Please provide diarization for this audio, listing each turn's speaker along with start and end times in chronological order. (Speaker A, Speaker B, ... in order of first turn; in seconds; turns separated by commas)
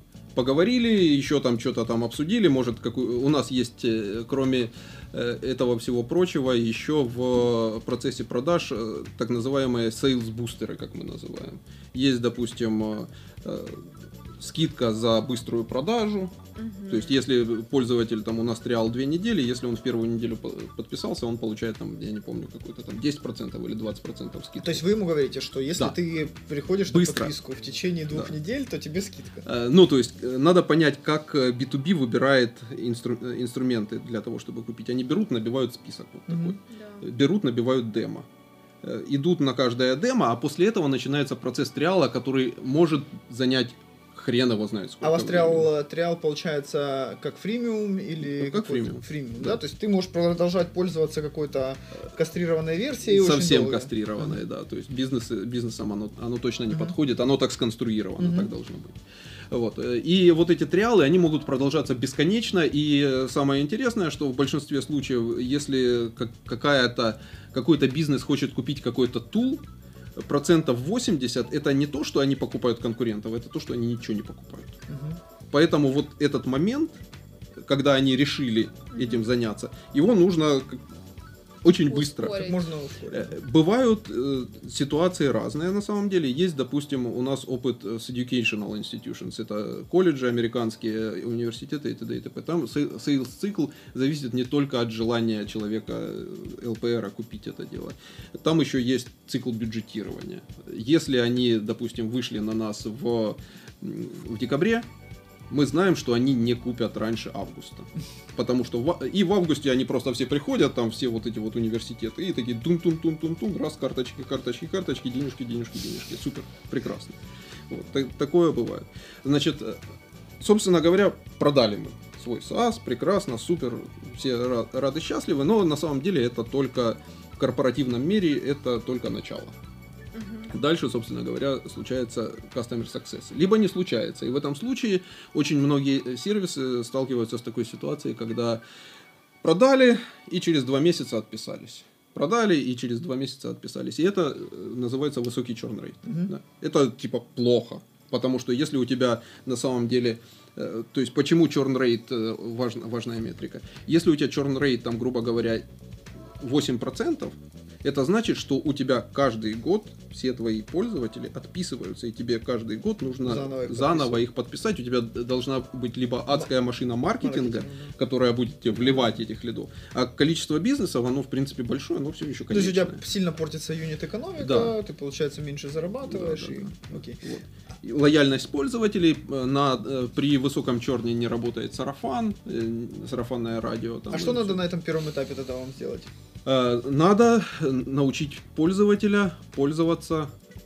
Speaker A: 0.3-16.4, Speaker B: 16.6-17.2, Speaker A: 16.9-24.8, Speaker C: 24.6-29.4, Speaker A: 26.9-27.3, Speaker A: 29.4-38.3, Speaker C: 36.3-36.6, Speaker B: 36.7-37.0, Speaker A: 38.8-45.7, Speaker C: 45.0-54.3, Speaker A: 48.2-49.6, Speaker A: 53.0-59.0, Speaker C: 58.2-58.5, Speaker A: 59.5-69.6, Speaker A: 70.2-74.8, Speaker C: 74.9-75.2, Speaker A: 75.5-77.0, Speaker A: 77.6-80.8, Speaker B: 78.9-79.3, Speaker A: 81.6-82.5, Speaker B: 81.8-82.7, Speaker C: 82.3-83.3, Speaker A: 83.1-104.9, Speaker A: 105.5-117.2, Speaker A: 117.7-119.8, Speaker A: 120.4-129.6, Speaker B: 130.1-130.5, Speaker A: 130.5-138.6, Speaker A: 139.4-155.6, Speaker C: 146.0-146.3, Speaker A: 156.4-173.0, Speaker C: 163.2-164.2, Speaker C: 167.2-167.9, Speaker C: 172.5-177.2, Speaker A: 174.4-174.7, Speaker A: 176.1-184.6, Speaker C: 184.1-186.1, Speaker A: 186.4-190.3